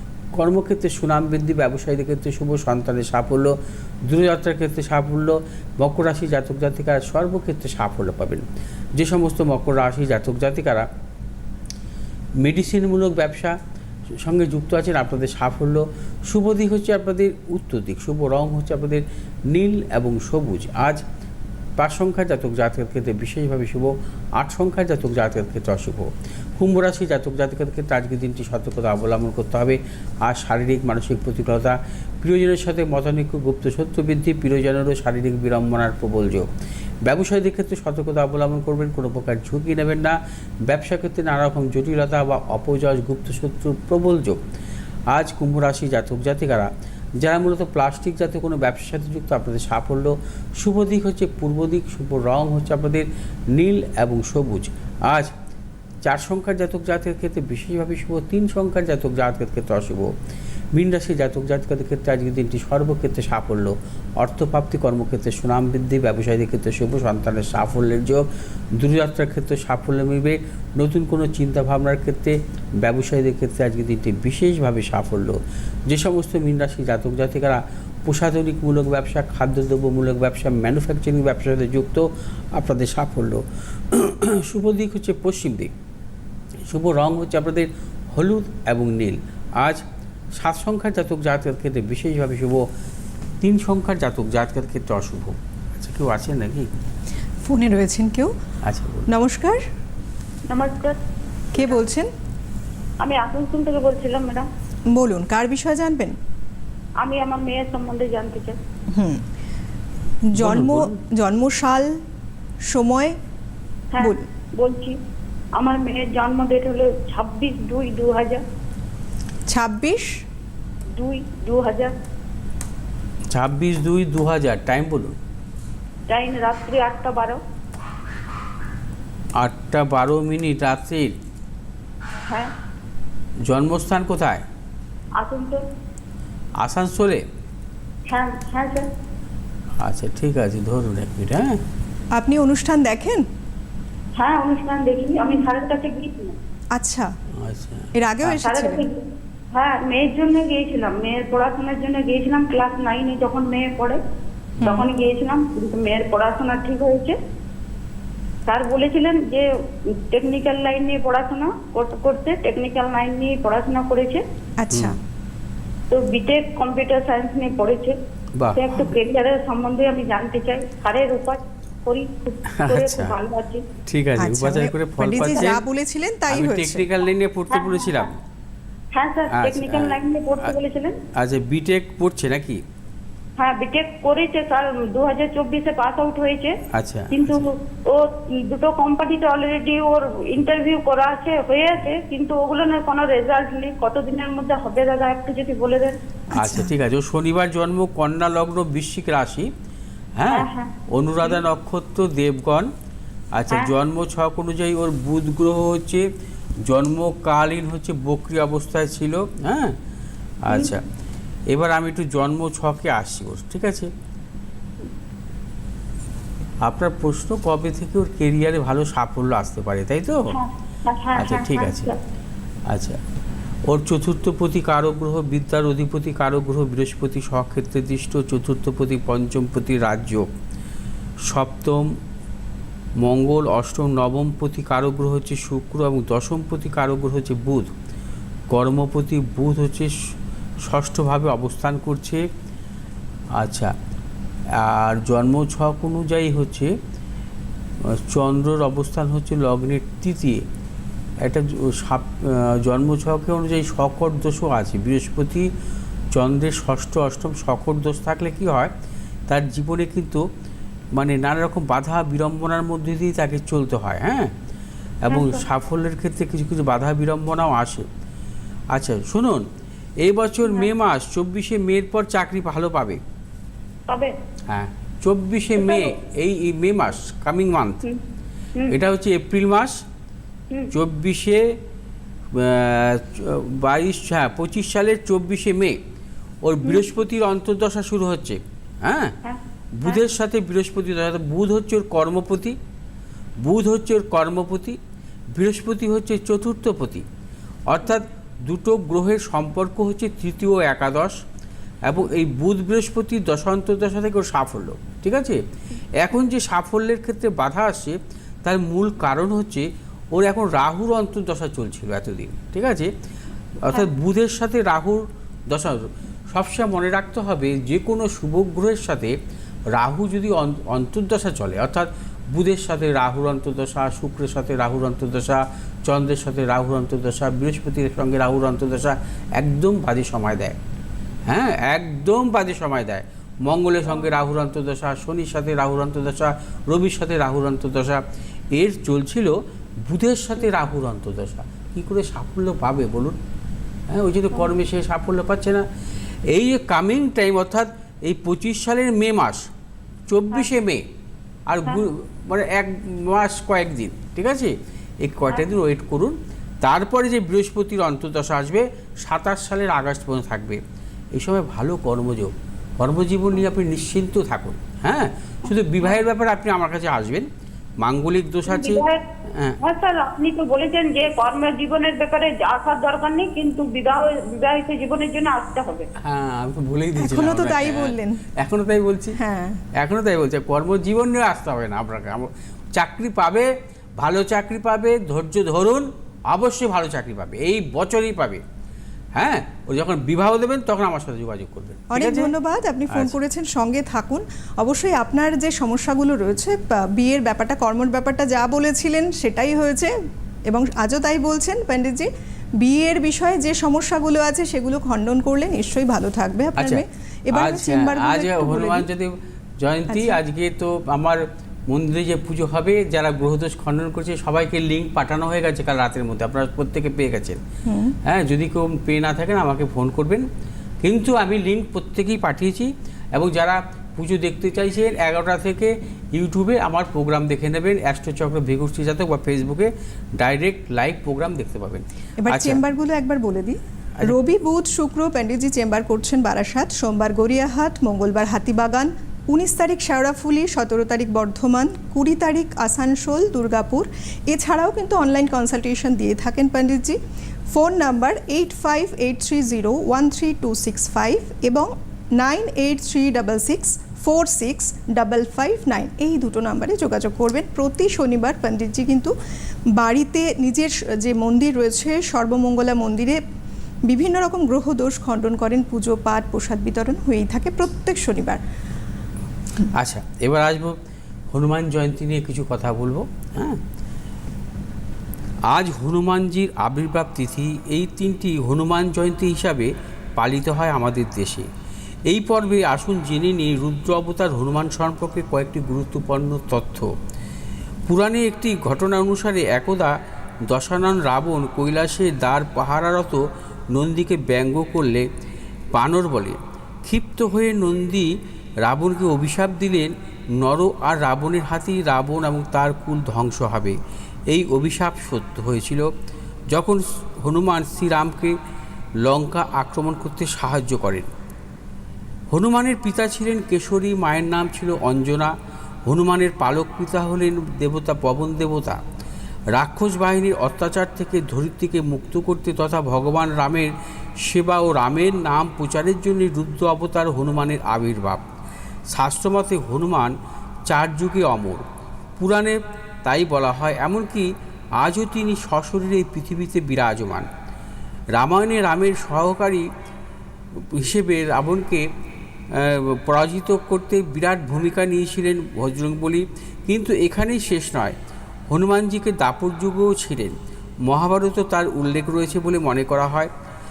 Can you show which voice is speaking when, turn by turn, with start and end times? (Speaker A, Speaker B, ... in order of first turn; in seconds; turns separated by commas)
Speaker A: 0.4-3.5, Speaker A: 4.1-8.5, Speaker A: 9.0-10.9, Speaker A: 12.4-13.6, Speaker A: 14.2-21.0, Speaker A: 21.8-36.5, Speaker A: 37.1-44.4, Speaker A: 45.1-55.3, Speaker A: 56.0-60.1, Speaker A: 60.8-68.3, Speaker A: 68.8-85.7, Speaker A: 86.7-89.8, Speaker A: 90.4-92.7, Speaker A: 93.4-96.7, Speaker B: 97.4-98.3, Speaker A: 98.7-99.1, Speaker B: 99.1-99.7, Speaker C: 100.5-101.0, Speaker B: 101.5-102.1, Speaker C: 103.0-104.5, Speaker B: 104.9-106.2, Speaker C: 107.0-108.6, Speaker B: 108.9-109.2, Speaker B: 110.3-112.0, Speaker A: 110.4-111.0, Speaker B: 112.7-113.2, Speaker C: 113.9-115.0, Speaker B: 114.0-114.3, Speaker C: 115.5-118.4, Speaker B: 119.5-120.1, Speaker C: 121.0-121.9, Speaker A: 123.3-125.2, Speaker C: 126.1-127.4, Speaker A: 129.4-131.2, Speaker C: 132.3-132.5, Speaker A: 133.5-134.4, Speaker C: 135.2-135.6, Speaker A: 136.6-137.2, Speaker C: 138.1-138.9, Speaker A: 139.8-141.6, Speaker B: 142.2-143.2, Speaker C: 144.2-146.4, Speaker B: 146.8-147.1, Speaker A: 147.4-147.9, Speaker B: 147.9-148.9, Speaker C: 148.4-149.0, Speaker C: 149.5-154.0, Speaker B: 154.6-154.9, Speaker C: 154.6-157.2, Speaker C: 158.5-164.2, Speaker B: 164.6-165.0, Speaker A: 164.7-165.0, Speaker C: 165.9-168.0, Speaker A: 168.4-169.0, Speaker C: 168.6-173.7, Speaker A: 172.5-173.2, Speaker A: 173.9-175.6, Speaker B: 174.2-176.9, Speaker A: 176.3-178.1, Speaker C: 177.5-178.1, Speaker C: 178.9-181.0, Speaker A: 179.3-180.5, Speaker A: 181.2-182.6, Speaker C: 183.4-186.6, Speaker A: 186.7-187.5, Speaker C: 187.1-196.0, Speaker B: 196.3-196.7, Speaker A: 196.3-199.5, Speaker A: 200.2-202.7, Speaker C: 200.3-200.7, Speaker A: 203.4-206.1, Speaker A: 206.7-209.8, Speaker A: 210.4-210.8, Speaker A: 211.5-213.9, Speaker A: 216.7-220.4, Speaker C: 220.3-222.0, Speaker A: 221.2-221.9, Speaker A: 222.7-223.0, Speaker A: 223.7-230.3, Speaker A: 231.3-232.0, Speaker A: 233.0-237.7, Speaker A: 238.5-240.0, Speaker A: 240.7-242.2, Speaker A: 243.4-243.7, Speaker A: 244.6-246.7, Speaker A: 247.9-250.4, Speaker A: 251.2-255.5, Speaker A: 256.1-258.7, Speaker A: 259.3-260.2, Speaker A: 261.0-264.3, Speaker A: 265.1-267.9, Speaker C: 265.1-265.4, Speaker A: 268.7-269.5, Speaker A: 270.0-273.0, Speaker C: 273.9-274.1, Speaker A: 274.5-277.8, Speaker C: 275.6-275.9, Speaker A: 278.7-279.8, Speaker A: 280.7-281.6, Speaker A: 282.4-285.8, Speaker A: 286.4-289.2, Speaker C: 286.6-286.9, Speaker C: 289.2-290.0, Speaker A: 289.8-292.6, Speaker A: 293.4-294.8, Speaker A: 295.4-297.1, Speaker A: 297.7-301.2, Speaker A: 301.9-305.4, Speaker A: 306.0-312.9, Speaker A: 313.6-319.1, Speaker A: 319.8-330.6, Speaker A: 331.3-338.0, Speaker A: 338.6-339.4, Speaker A: 339.9-343.2, Speaker A: 343.9-345.6, Speaker A: 346.3-349.5, Speaker A: 350.1-350.9, Speaker A: 351.5-360.6, Speaker A: 361.1-367.3, Speaker C: 365.5-366.0, Speaker A: 367.8-369.6, Speaker C: 368.5-369.0, Speaker C: 369.6-375.9, Speaker A: 376.0-379.2, Speaker B: 377.0-378.2, Speaker B: 379.2-379.6, Speaker A: 379.8-388.4, Speaker A: 389.2-392.3, Speaker B: 391.9-399.9, Speaker B: 400.5-402.1, Speaker B: 402.6-408.9, Speaker A: 406.6-417.4, Speaker B: 409.9-410.2, Speaker B: 417.7-418.0, Speaker A: 418.0-420.3, Speaker A: 420.8-432.6, Speaker B: 432.2-447.0, Speaker B: 447.5-459.1, Speaker B: 459.8-463.2, Speaker B: 463.9-468.4, Speaker A: 469.6-470.8, Speaker A: 471.3-473.6, Speaker A: 475.5-481.5, Speaker A: 482.1-486.9, Speaker A: 487.9-489.9, Speaker A: 490.5-493.2, Speaker A: 493.7-495.1, Speaker A: 495.8-498.1, Speaker A: 498.6-503.8, Speaker A: 504.3-505.9, Speaker A: 506.5-508.4, Speaker A: 509.0-511.1, Speaker A: 512.3-515.3, Speaker A: 515.9-518.8, Speaker A: 519.5-528.2, Speaker A: 528.9-530.1, Speaker A: 530.7-531.6, Speaker A: 532.2-537.3, Speaker A: 538.2-539.7, Speaker A: 540.7-541.9, Speaker A: 542.5-548.0, Speaker A: 548.5-550.4, Speaker A: 550.9-553.3